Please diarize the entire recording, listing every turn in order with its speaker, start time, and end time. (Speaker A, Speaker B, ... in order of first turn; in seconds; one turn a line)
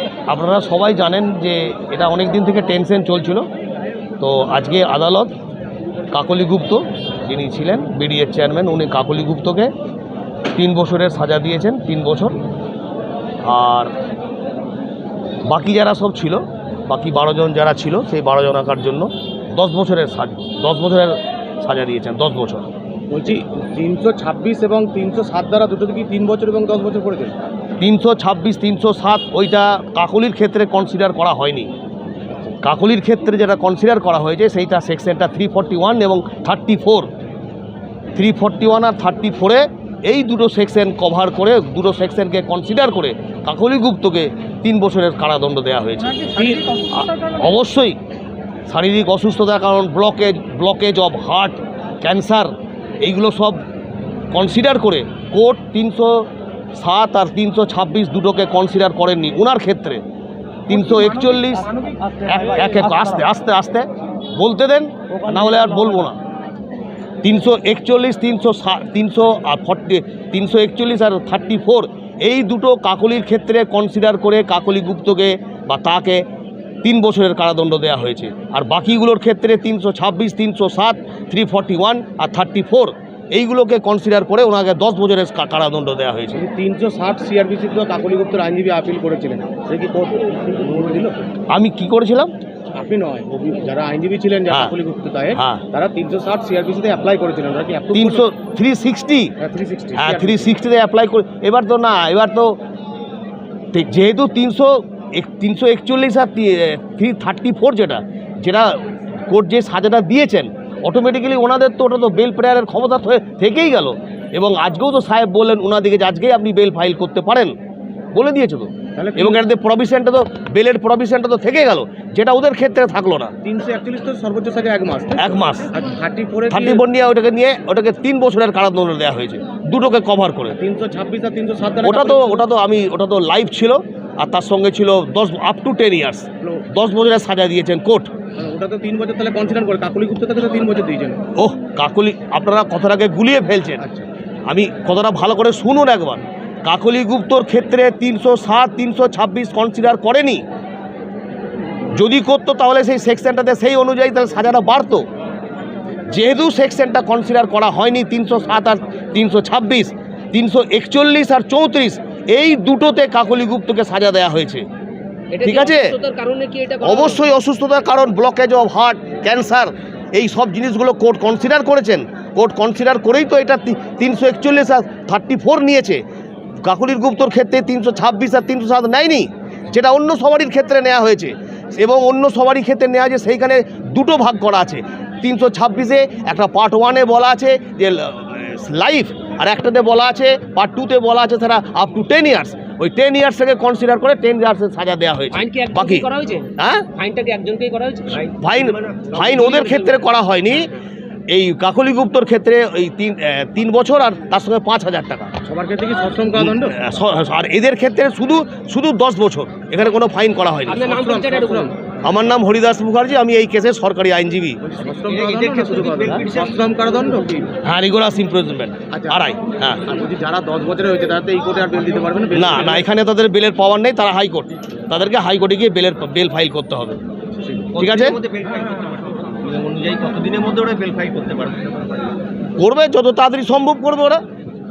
Speaker A: 0.3-3.5
Speaker A: 4.2-5.3
Speaker A: 6.1-9.7
Speaker A: 10.5-12.4
Speaker A: 13.4-13.9
Speaker A: 15.5-22.7
Speaker B: 23.1-27.4
Speaker A: 27.8-31.7
Speaker A: 32.6-37.1
Speaker A: 38.2-48.0
Speaker B: 46.3-46.8
Speaker A: 48.7-53.6
Speaker A: 54.3-60.0
Speaker A: 60.7-66.2
Speaker B: 65.1-66.0
Speaker A: 67.2-76.2
Speaker A: 76.8-86.4
Speaker B: 86.3-91.3
Speaker A: 91.5-92.3
Speaker B: 92.7-98.3
Speaker A: 95.3-95.6
Speaker A: 97.9-99.3
Speaker B: 99.4-100.6
Speaker A: 100.0-102.6
Speaker A: 103.7-117.5
Speaker A: 118.1-123.3
Speaker B: 119.0-119.5
Speaker B: 123.4-126.8
Speaker A: 125.2-125.7
Speaker A: 126.5-130.6
Speaker B: 130.5-132.5
Speaker A: 131.8-138.1
Speaker B: 136.4-136.7
Speaker B: 138.3-141.2
Speaker A: 141.3-143.8
Speaker B: 143.8-144.1
Speaker A: 144.5-150.4
Speaker A: 151.9-155.1
Speaker A: 156.1-164.7
Speaker C: 165.3-167.2
Speaker A: 165.4-165.9
Speaker A: 166.8-176.0
Speaker A: 176.6-196.9
Speaker C: 195.3-198.2
Speaker D: 198.1-200.1
Speaker A: 198.4-200.7
Speaker A: 201.3-205.3
Speaker B: 205.4-206.8
Speaker A: 206.4-210.9
Speaker C: 210.7-211.7
Speaker B: 210.7-211.7
Speaker A: 212.0-214.6
Speaker B: 214.6-217.5
Speaker D: 215.1-216.6
Speaker A: 217.6-219.9
Speaker B: 218.9-219.2
Speaker B: 219.8-222.9
Speaker A: 222.3-227.0
Speaker D: 227.5-232.1
Speaker A: 227.8-228.2
Speaker A: 232.6-234.2